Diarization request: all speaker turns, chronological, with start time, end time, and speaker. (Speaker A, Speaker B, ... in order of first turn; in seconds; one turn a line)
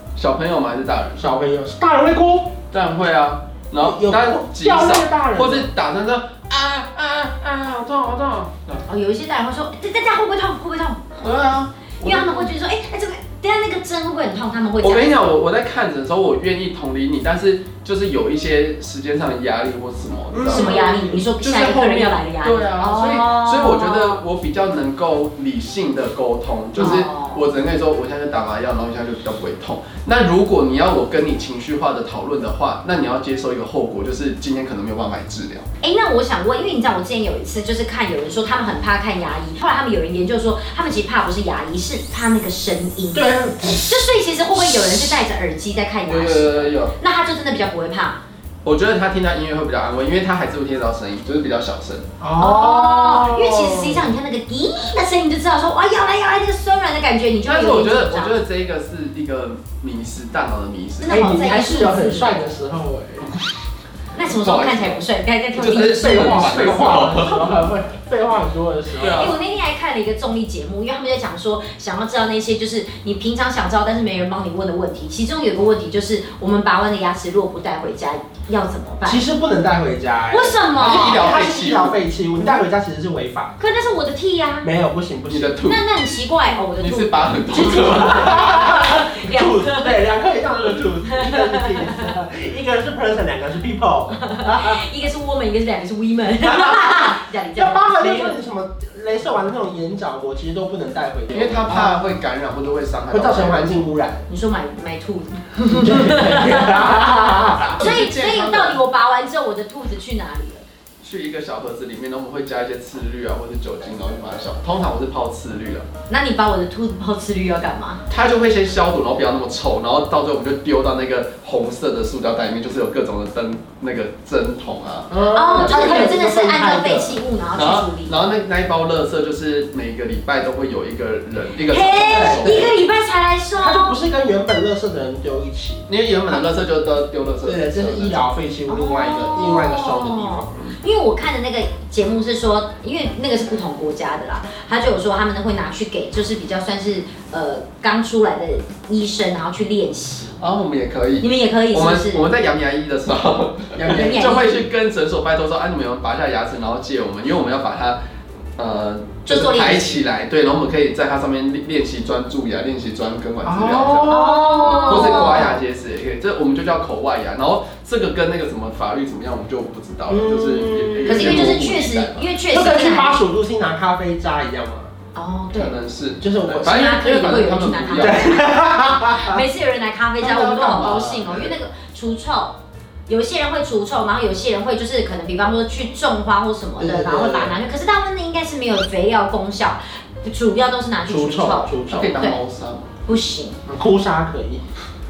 Speaker A: 0.1-1.2
Speaker B: 1.1-2.5
Speaker A: 2.7-8.8
Speaker B: 3.8-5.7
Speaker C: 8.9-11.3
Speaker A: 11.2-12.5
Speaker C: 12.0-15.3
Speaker A: 14.8-35.7
Speaker B: 20.3-21.2
Speaker C: 20.4-24.2
Speaker C: 26.8-27.4
Speaker C: 35.8-48.2
Speaker B: 43.1-43.9
Speaker A: 46.0-46.9
Speaker A: 48.6-52.0
Speaker B: 52.2-54.0
Speaker C: 52.4-58.4
Speaker A: 57.4-61.5
Speaker C: 61.0-62.4
Speaker B: 61.1-63.3
Speaker C: 64.1-67.1
Speaker A: 64.4-67.6
Speaker B: 65.8-69.3
Speaker A: 69.0-69.3
Speaker C: 69.0-79.2
Speaker B: 79.0-83.6
Speaker C: 80.3-81.5
Speaker A: 80.8-82.0
Speaker C: 83.6-84.7
Speaker B: 84.6-85.6
Speaker A: 85.3-85.8
Speaker C: 85.7-89.9
Speaker A: 86.6-88.7
Speaker B: 88.0-94.8
Speaker C: 91.1-92.1
Speaker C: 94.1-98.4
Speaker B: 96.5-97.0
Speaker B: 97.5-102.0
Speaker A: 101.3-103.8
Speaker B: 103.1-104.2
Speaker C: 104.3-110.6
Speaker B: 105.7-107.8
Speaker A: 107.7-108.8
Speaker A: 111.0-115.8
Speaker C: 116.1-118.0
Speaker A: 118.1-125.8
Speaker B: 125.1-127.2
Speaker C: 125.2-128.2
Speaker A: 127.5-132.8
Speaker C: 131.7-133.9
Speaker B: 132.1-132.7
Speaker B: 133.6-135.9
Speaker A: 135.9-138.2
Speaker B: 137.4-140.6
Speaker C: 138.7-150.3
Speaker A: 150.4-158.0
Speaker C: 151.2-152.2
Speaker B: 153.8-154.2
Speaker C: 153.8-154.6
Speaker A: 158.6-172.3
Speaker C: 159.2-160.0
Speaker B: 163.4-165.3
Speaker C: 164.0-165.6
Speaker B: 170.1-171.5
Speaker C: 171.1-173.2
Speaker B: 172.5-174.9
Speaker C: 175.1-175.7
Speaker A: 175.5-178.3
Speaker B: 176.2-176.8
Speaker C: 176.6-192.4
Speaker B: 177.9-179.4
Speaker A: 180.2-181.5
Speaker B: 186.8-187.6
Speaker B: 191.1-192.2
Speaker A: 191.9-192.9
Speaker C: 193.1-193.6
Speaker B: 193.7-194.6